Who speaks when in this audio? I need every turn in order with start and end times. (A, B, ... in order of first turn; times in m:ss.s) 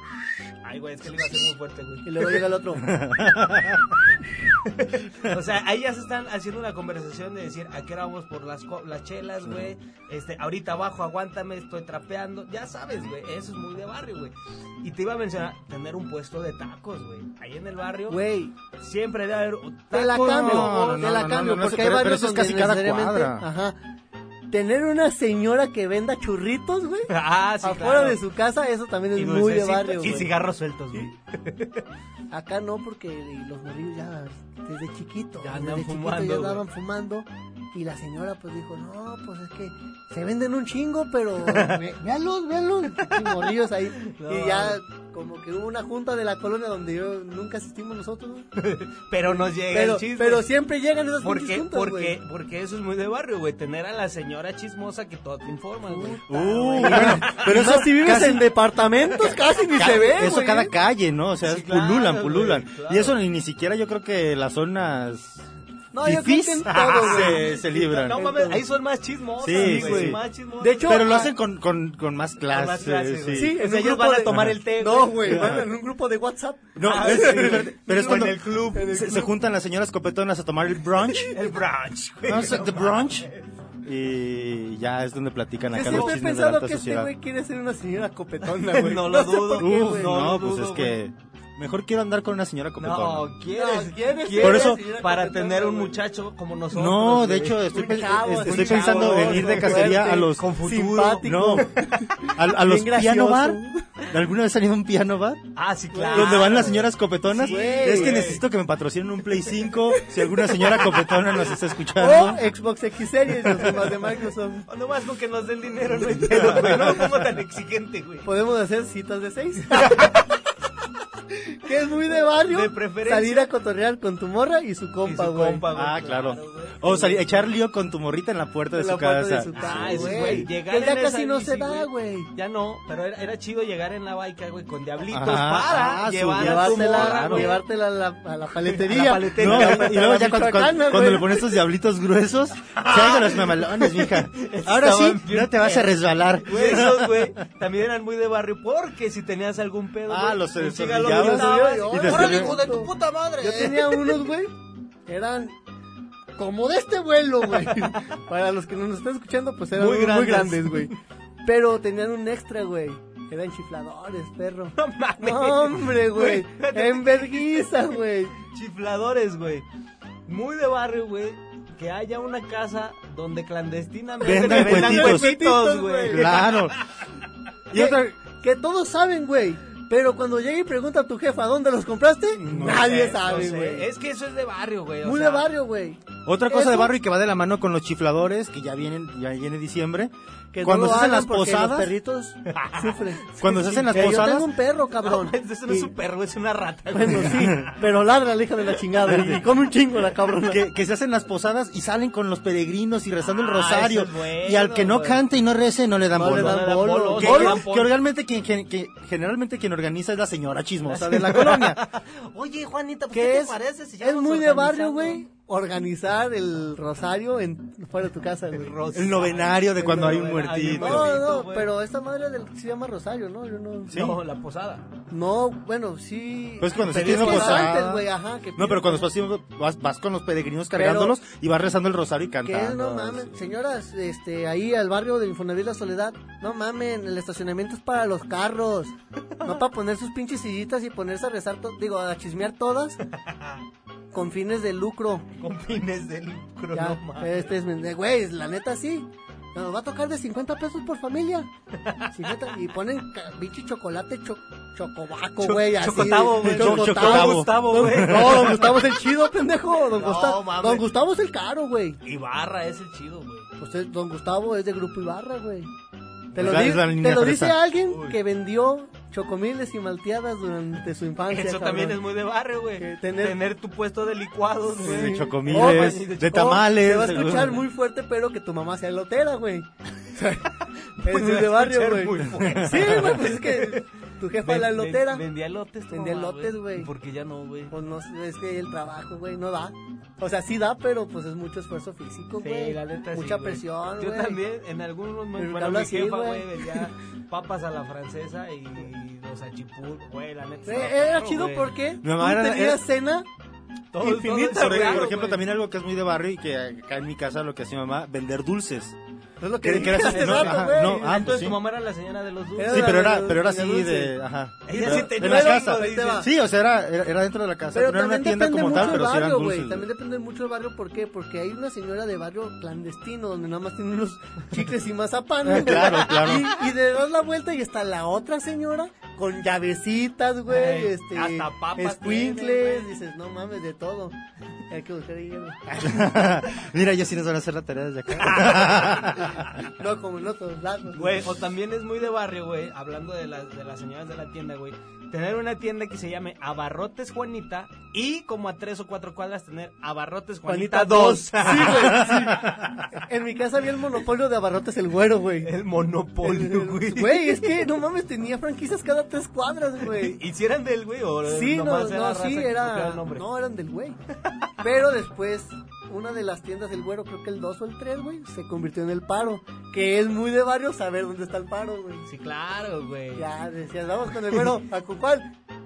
0:00.6-0:02.4 A
0:02.0-0:03.0 B
0:02.8-0:03.8 C
0:04.5-0:18.2 A
0:18.1-0:18.6 B
0:18.8-0:21.0 A
0:19.9-0:23.8 B
0:20.1-0:23.5 C
0:24.5-0:30.4 B
0:27.1-0:28.2 A
0:29.2-0:31.8 A
0:32.3-0:48.5 B
0:35.4-0:36.6 A
0:41.4-0:41.9 A
0:43.0-0:43.4 A
0:43.9-0:44.8 A
0:48.6-0:50.5 A
0:49.7-0:52.2 B
0:51.2-0:57.5 A
0:55.8-1:00.7 B
0:56.3-0:58.5 C
0:59.8-1:05.4 C
1:01.4-1:03.2 A
1:05.9-1:08.7 B
1:06.0-1:08.2 C
1:06.7-1:11.0 A
1:09.4-1:10.2 C
1:09.5-1:11.3 B
1:10.8-1:13.6 C
1:12.5-1:15.5 A
1:13.3-1:19.4 B
1:14.3-1:14.6 C
1:15.2-1:15.7 C
1:16.8-1:21.4 C
1:16.8-1:19.1 A
1:21.1-1:23.5 A
1:22.3-1:23.3 C
1:23.8-1:27.1 C
1:25.7-1:30.2 B
1:25.8-1:26.2 A
1:28.4-1:31.0 A
1:29.6-1:33.3 C
1:32.8-1:37.8 A
1:33.5-1:36.0 B
1:34.4-1:34.8 C
1:36.7-1:40.5 C
1:37.7-1:43.9 B
1:38.4-1:42.2 A
1:41.2-1:41.7 C
1:42.3-1:45.4 C
1:45.6-1:48.4 A
1:45.9-1:46.7 B
1:46.1-1:52.4 C
1:47.4-1:48.4 B
1:52.0-1:54.7 B
1:54.7-1:58.3 A
1:56.2-1:56.9 C
1:58.2-2:00.3 B
1:59.8-2:00.2 A
2:01.3-2:05.7 B
2:02.3-2:03.5 A
2:05.0-2:07.5 A
2:05.7-2:10.5 C
2:08.7-2:12.3 B
2:09.6-2:17.6 A
2:15.1-2:17.5 C
2:16.4-2:21.6 B
2:18.6-2:20.1 A
2:19.4-2:27.4 C
2:22.7-2:34.2 A
2:30.1-2:32.6 C
2:31.1-2:34.5 B
2:35.1-2:35.5 B
2:36.4-2:40.9 B
2:39.8-2:41.0 A
2:41.4-2:48.4 B
2:44.8-2:47.7 A
2:48.5-2:49.7 A
2:50.3-2:57.0 A
2:54.2-2:55.4 C
2:54.2-2:56.6 B
2:56.1-2:56.8 C
2:57.7-3:03.9 B
2:57.7-2:58.2 C
3:02.4-3:05.5 A
3:02.5-3:02.9 C
3:05.0-3:06.9 B
3:06.3-3:11.9 C
3:10.5-3:15.9 B
3:12.5-3:13.2 A
3:13.4-3:14.5 C
3:15.0-3:17.8 A
3:16.9-3:20.6 B
3:17.3-3:17.7 C
3:19.0-3:19.4 C
3:20.5-3:31.8 C
3:23.2-3:25.2 A
3:26.2-3:27.7 B
3:26.2-3:27.9 A
3:30.9-3:35.2 A
3:33.1-3:38.8 B
3:38.5-3:41.7 A
3:38.9-3:41.2 C
3:40.0-3:44.2 B
3:43.9-3:44.2 C
3:43.9-3:44.9 A
3:45.1-3:49.1 B
3:46.6-3:53.4 C
3:46.8-3:47.7 A
3:50.8-3:51.2 B
3:52.4-4:03.0 B
3:59.3-3:59.6 A
4:03.0-4:03.6 A
4:04.1-4:05.3 B
4:05.4-4:07.5 A
4:06.7-4:11.5 B
4:11.8-4:12.5 A
4:12.1-4:22.0 B
4:15.4-4:18.9 A
4:16.2-4:18.7 C
4:19.9-4:20.8 A
4:22.0-4:23.5 A
4:23.6-4:25.7 B
4:26.3-4:32.0 B
4:26.4-4:27.6 C
4:27.9-4:28.2 A
4:31.3-4:36.6 A
4:32.8-4:33.4 B
4:34.8-4:37.7 C
4:34.8-4:45.2 B
4:37.1-4:37.6 A
4:40.6-4:43.9 A
4:42.4-4:43.1 C
4:44.4-4:47.7 A
4:45.9-4:46.9 B
4:47.7-4:54.4 B
4:52.4-5:01.7 A
4:55.4-4:56.9 B
5:00.7-5:03.3 B
5:02.0-5:02.8 C
5:03.9-5:05.4 A
5:04.0-5:05.2 B
5:04.6-5:09.0 C
5:09.4-5:11.2 B
5:09.6-5:11.6 C
5:09.8-5:13.0 A
5:12.6-5:14.2 B
5:12.7-5:19.9 C
5:14.7-5:16.3 A
5:14.7-5:16.3 B
5:17.7-5:34.2 B
5:25.4-5:26.6 C
5:30.5-5:32.9 A
5:34.7-5:35.9 B
5:35.8-5:39.6 C
5:38.2-5:39.2 A
5:39.6-5:41.3 B
5:41.0-5:52.5 A
5:50.5-5:55.5 B
5:51.9-5:52.7 C
5:55.4-5:57.7 A
5:56.2-6:00.2 B
5:59.9-6:03.2 A
6:01.3-6:04.0 B
6:04.6-6:12.1 B
6:12.1-6:13.3 A
6:13.2-6:15.3 B